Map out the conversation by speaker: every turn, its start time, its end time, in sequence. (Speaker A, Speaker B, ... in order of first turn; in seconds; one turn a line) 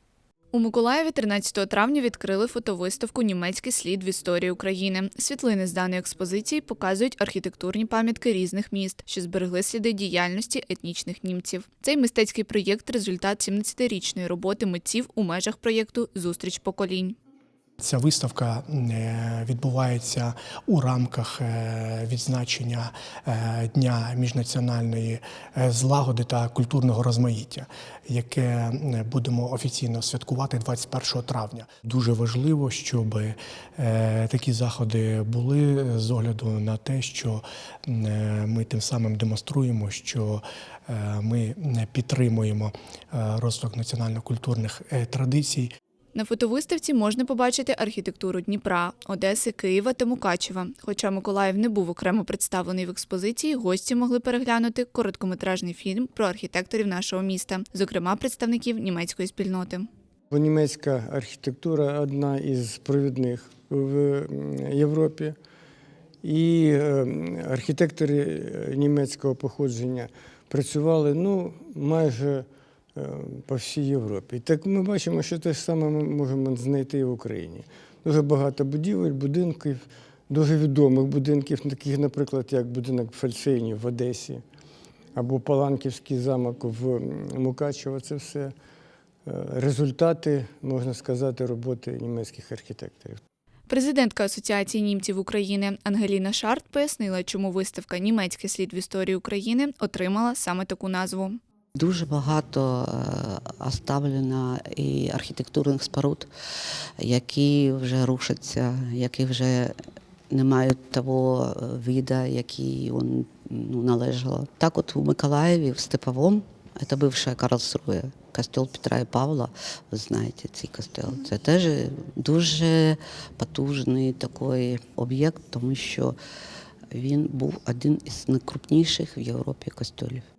Speaker A: 0.5-17.1
Speaker B: 17.8-45.7
Speaker A: 46.1-59.9
Speaker C: 60.3-65.3
Speaker C: 66.2-84.4
Speaker C: 85.1-88.5
Speaker C: 89.2-93.2
Speaker A: 93.7-101.4
Speaker D: 101.8-106.3
Speaker D: 107.0-109.7
Speaker D: 110.3-126.1
Speaker D: 126.9-130.2